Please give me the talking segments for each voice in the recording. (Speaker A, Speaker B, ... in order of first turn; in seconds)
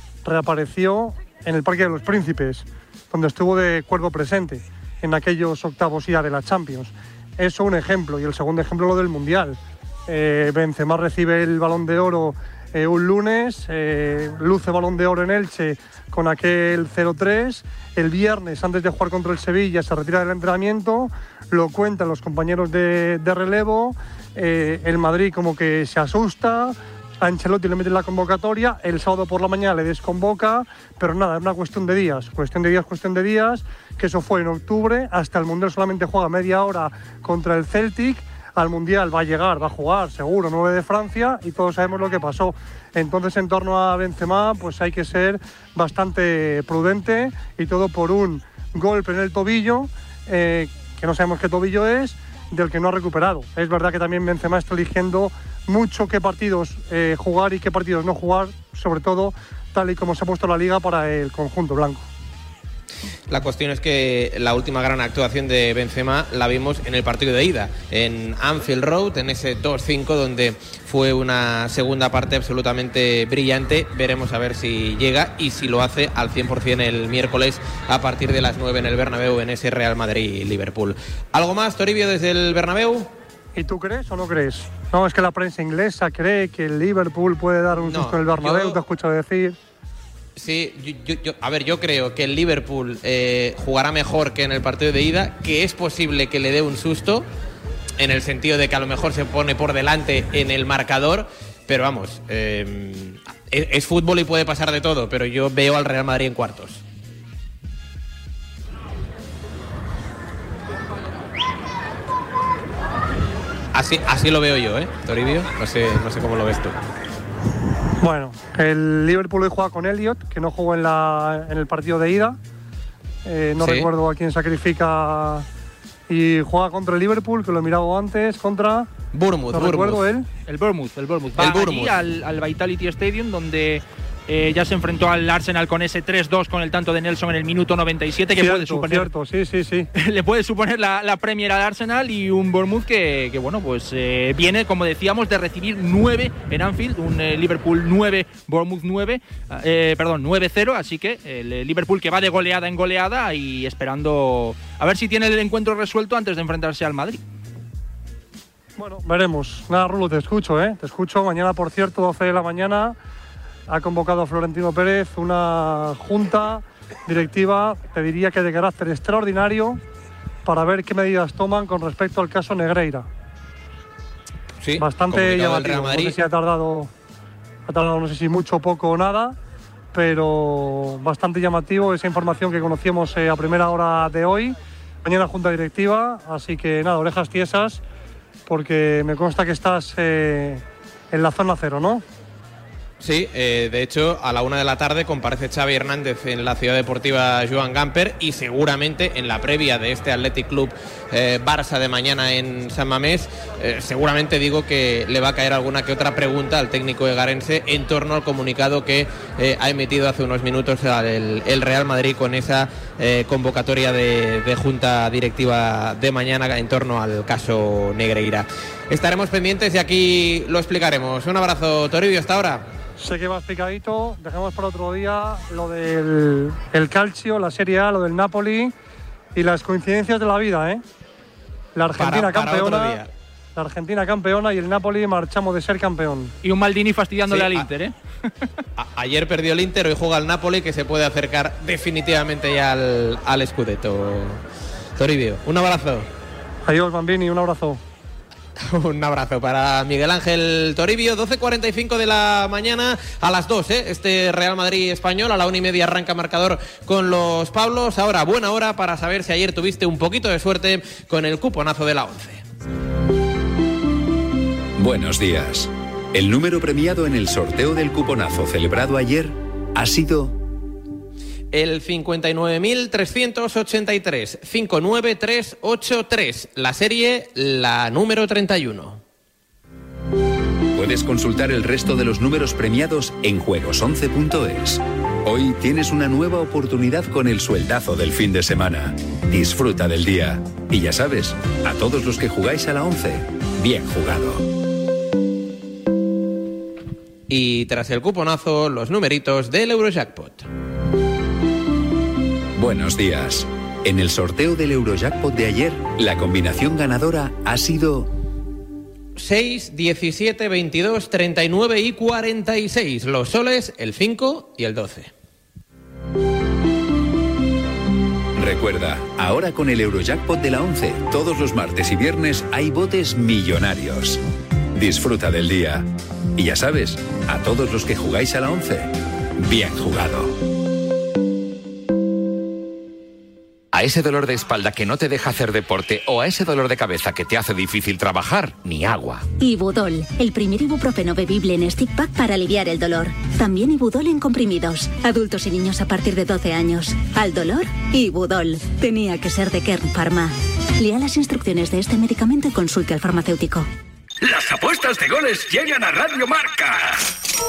Speaker A: 0.2-62.1, 83.5-89.5, 118.0-122.4, 123.2-125.5, 126.1-128.9, 129.5-130.2, 138.3-139.9, 158.8-163.0, 163.7-169.8, 170.4-173.1, 174.8-176.9, 177.7-179.4, 179.9-187.8, 188.5-192.0, 223.0-228.7, 229.3-230.8, 231.8-233.0, 233.6-236.3, 246.7-247.8
Speaker B: 63.3-83.1, 87.7-88.8, 90.3-97.2, 98.0-106.8, 113.7-116.8, 123.6-123.9, 129.1-130.0, 131.4-131.9, 174.6-176.2, 193.0-222.6, 232.0-233.1, 237.3-237.7, 238.8-244.4, 245.0-246.1, 248.6-262.4, 271.5-279.0, 297.3-300.4, 309.1-315.1
Speaker C: 130.4-139.1, 139.9-157.2, 236.4-237.9
Speaker D: 264.8-270.4, 280.7-294.4, 302.6-308.1, 318.4-324.2, 324.7-330.3
Speaker E: 333.7-339.3
Speaker F: 339.4-353.7
Speaker G: 354.2-357.0